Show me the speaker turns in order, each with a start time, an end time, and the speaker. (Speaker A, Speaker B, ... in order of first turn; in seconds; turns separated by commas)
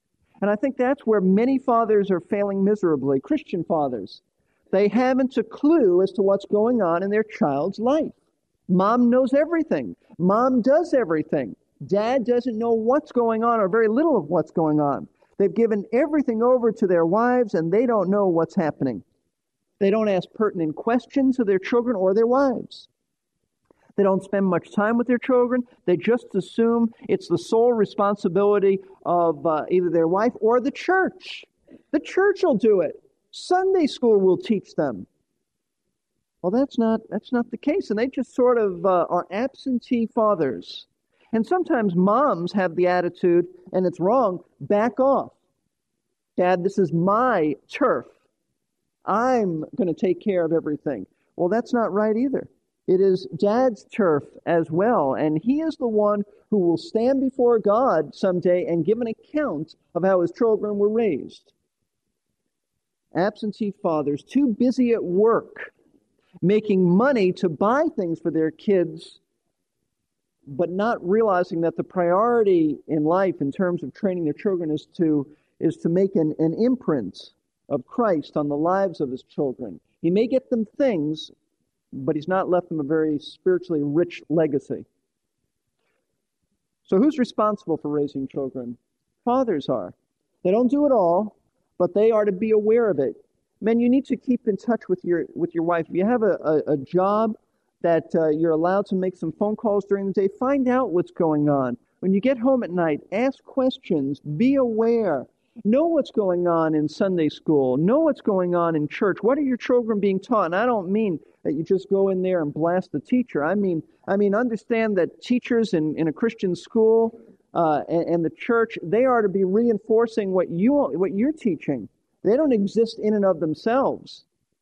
Speaker A: 0.4-4.2, Speaker A: 4.7-8.1, Speaker A: 8.7-19.0, Speaker A: 19.8-22.9, Speaker A: 24.0-35.1, Speaker A: 36.4-45.3, Speaker A: 46.4-48.1, Speaker A: 49.0-61.5, Speaker A: 63.1-65.7, Speaker A: 66.4-69.2, Speaker A: 70.5-81.3, Speaker A: 81.9-84.8, Speaker A: 86.8-124.2